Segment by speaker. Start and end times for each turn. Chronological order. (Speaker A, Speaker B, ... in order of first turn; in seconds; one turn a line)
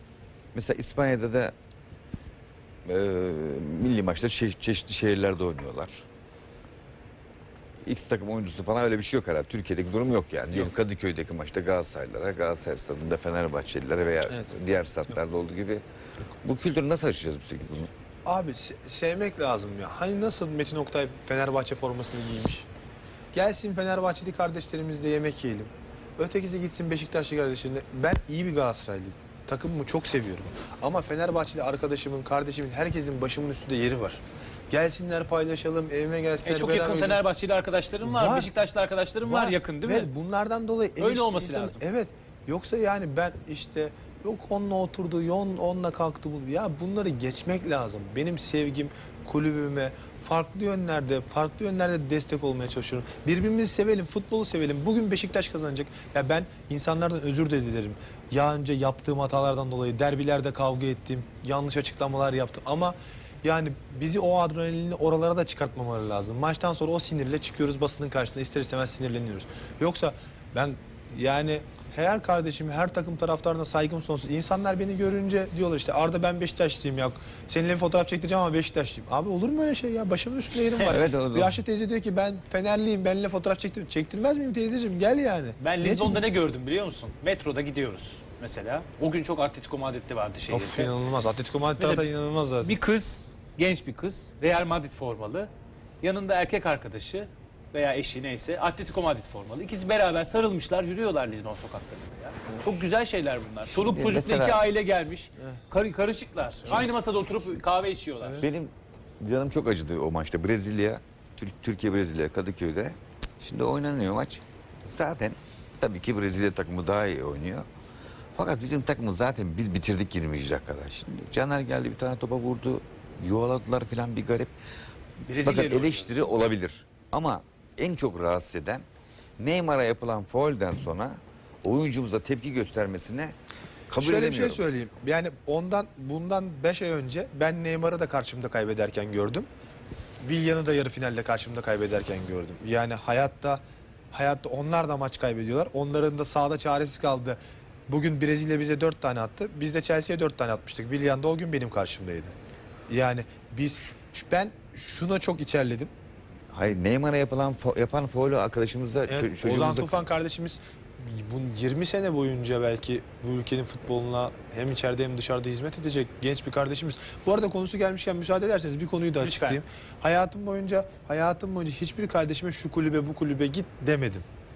Speaker A: 0.5-1.5
Speaker A: 2.9-6.0
Speaker A: 7.8-15.8
Speaker A: 16.4-17.9
Speaker B: 18.2-22.7
Speaker B: 23.3-37.2
Speaker C: 36.4-40.1
Speaker B: 38.0-38.5
Speaker B: 39.2-86.2
Speaker C: 41.0-41.8
Speaker A: 80.9-81.6
Speaker C: 85.6-90.9
Speaker B: 90.5-92.8
Speaker C: 91.8-92.1
Speaker C: 92.6-95.5
Speaker C: 96.0-108.5
Speaker A: 103.7-104.6
Speaker B: 108.2-108.5
Speaker A: 108.4-117.7
Speaker A: 118.4-124.5
Speaker C: 125.2-126.5
Speaker A: 125.4-128.8
Speaker A: 129.4-133.3
Speaker A: 133.9-134.6
Speaker B: 134.0-139.5
Speaker B: 140.2-143.6
Speaker B: 144.1-152.3
Speaker B: 152.9-155.9
Speaker A: 156.5-160.0
Speaker B: 159.1-174.2
Speaker C: 169.2-169.6